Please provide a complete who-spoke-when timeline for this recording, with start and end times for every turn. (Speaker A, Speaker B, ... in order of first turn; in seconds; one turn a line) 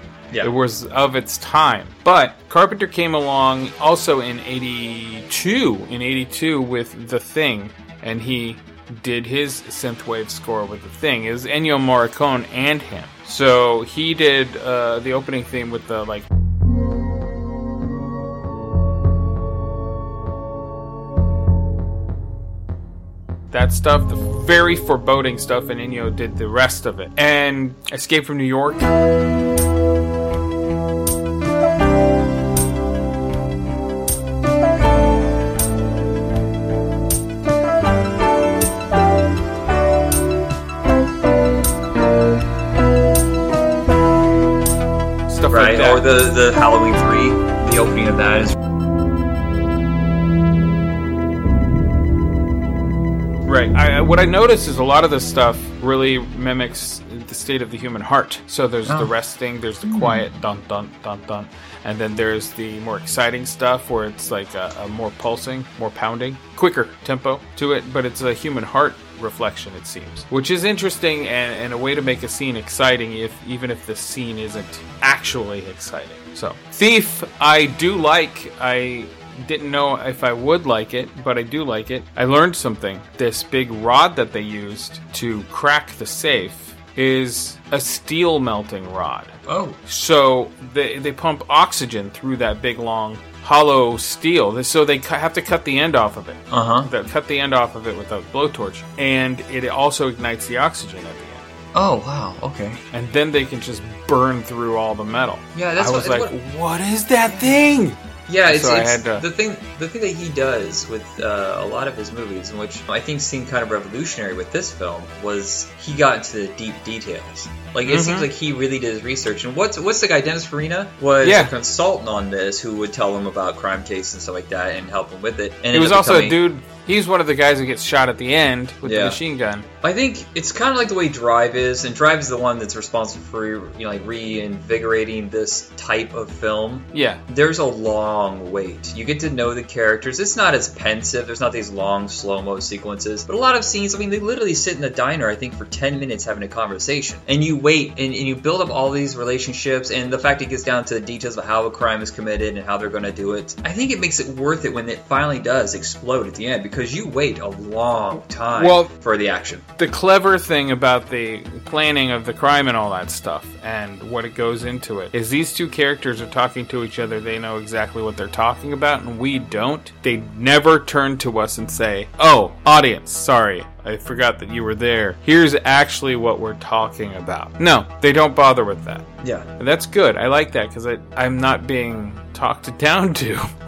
Speaker A: 0.4-16.2
Speaker A: 23.5-28.9
Speaker A: 45.3-46.0
Speaker B: 45.5-48.5
Speaker A: 53.5-89.3
Speaker B: 59.9-60.2
Speaker B: 89.5-89.8
Speaker A: 89.9-101.4
Speaker B: 96.5-96.9
Speaker B: 101.7-102.8
Speaker A: 102.9-108.0
Speaker B: 105.5-106.3
Speaker B: 107.3-107.6
Speaker B: 108.3-126.4
Speaker A: 108.5-109.2
Speaker A: 117.9-118.3
Speaker A: 121.2-121.5
Speaker A: 125.7-129.7
Speaker B: 128.8-129.2
Speaker B: 129.8-159.6
Speaker A: 136.9-137.2
Speaker A: 158.5-158.9
Speaker A: 159.8-179.1
Speaker B: 179.2-179.5
Speaker A: 179.6-183.5